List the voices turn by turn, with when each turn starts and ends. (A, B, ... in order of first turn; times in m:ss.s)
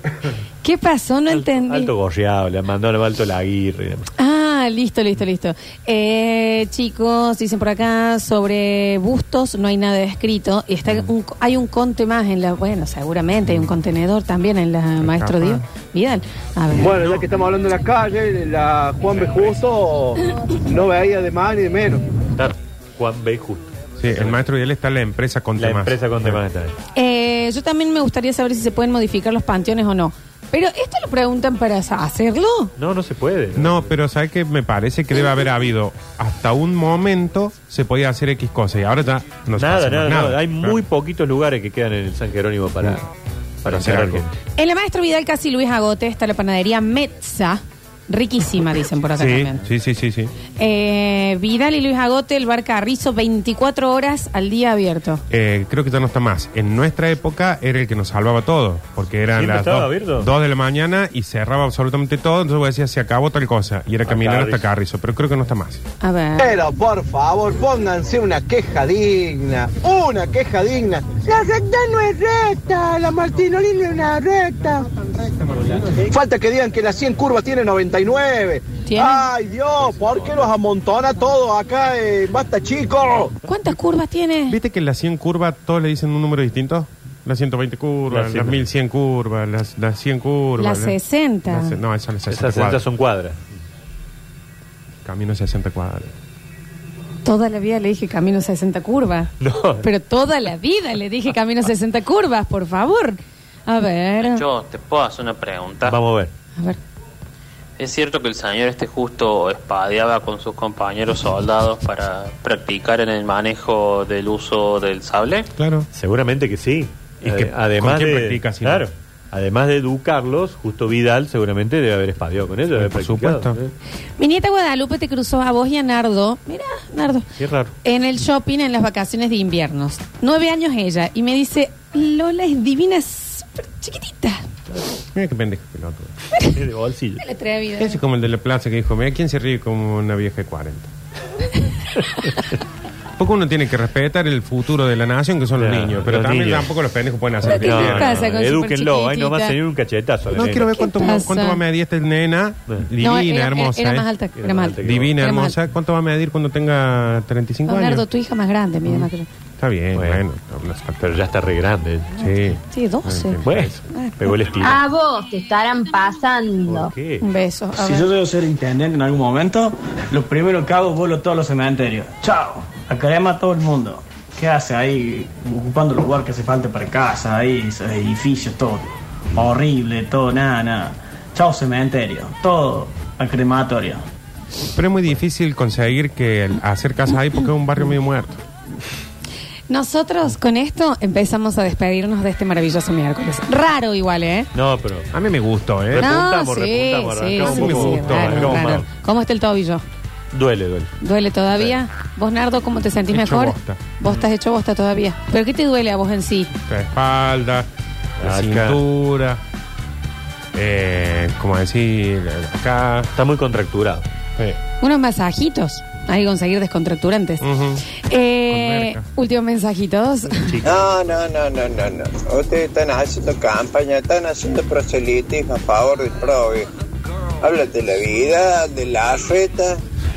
0:00.6-0:01.9 A
0:01.3-0:04.1 B
0:04.2-0:16.9 A
0:15.0-0:15.6 C
0:16.8-0:22.0 D
0:16.8-0:17.2 B
0:19.1-0:19.6 B
0:22.3-0:24.4 B
0:24.0-0:26.4 C
0:25.6-0:26.7 B
0:26.9-0:32.7 A
0:32.8-0:33.9 B
0:33.6-0:40.8 C
0:39.6-0:43.1 B
0:43.6-0:44.3 B
0:43.6-0:44.3 C
0:44.6-0:49.6 A
0:49.2-0:50.3 C
0:50.6-0:55.2 A
0:55.3-1:05.8 C
0:59.3-1:00.3 B
1:04.0-1:04.6 B
1:06.0-1:06.6 A
1:06.4-1:14.8 D
1:15.8-1:23.3 D
1:18.8-1:19.3 A
1:19.8-1:20.5 B
1:23.4-1:24.6 A
1:24.5-1:32.8 C
1:28.1-1:28.6 B
1:30.6-1:31.8 A
1:32.3-1:33.4 B
1:35.0-1:36.1 C
1:37.2-1:44.4 A
1:39.4-1:39.8 B
1:44.2-1:46.0 E
1:45.8-1:46.3 B
1:47.8-1:55.5 E
1:55.6-1:55.9 C
1:55.9-2:03.7 B
1:57.2-1:58.9 C
2:02.7-2:03.6 C
2:04.2-2:07.3 A
2:07.4-2:07.7 B
2:07.8-2:14.4 A
2:15.1-2:16.1 C
2:16.4-2:17.2 B
2:17.2-2:18.0 A
2:17.8-2:20.9 C
2:21.6-2:22.4 A
2:23.2-2:28.2 C
2:25.6-2:26.7 B
2:27.5-2:30.8 B
2:27.5-2:29.6 A
2:30.3-2:34.1 C
2:30.7-2:31.6 A
2:33.0-2:35.5 A
2:34.4-2:35.2 B
2:34.8-2:38.0 C
2:37.7-2:39.3 A
2:39.6-2:41.2 C
2:39.9-2:40.2 B
2:41.0-2:42.1 B
2:42.2-2:43.8 C
2:42.4-2:44.3 A
2:43.4-2:44.8 B
2:44.6-2:46.9 F
2:46.6-2:47.2 B
2:47.2-2:48.1 A
2:47.8-3:04.0 G
3:04.7-3:08.4 C
3:09.7-3:14.5 A
3:14.5-3:15.1 B
3:15.1-3:16.2 C
3:15.9-3:18.9 B
3:16.0-3:19.8 A
3:17.4-3:18.8 C
3:20.3-3:20.9 B
3:21.0-3:26.5 A
3:23.1-3:23.8 C
3:26.7-3:27.7 C
3:28.2-3:29.4 C
3:28.2-3:28.8 B
3:30.5-3:33.1 C
3:33.1-3:34.0 B
3:34.8-3:37.4 A
3:37.4-3:37.8 C
3:38.1-3:40.6 A
3:38.5-3:39.0 C
3:40.3-3:41.0 B
3:40.6-3:46.7 H
3:47.4-3:49.8 H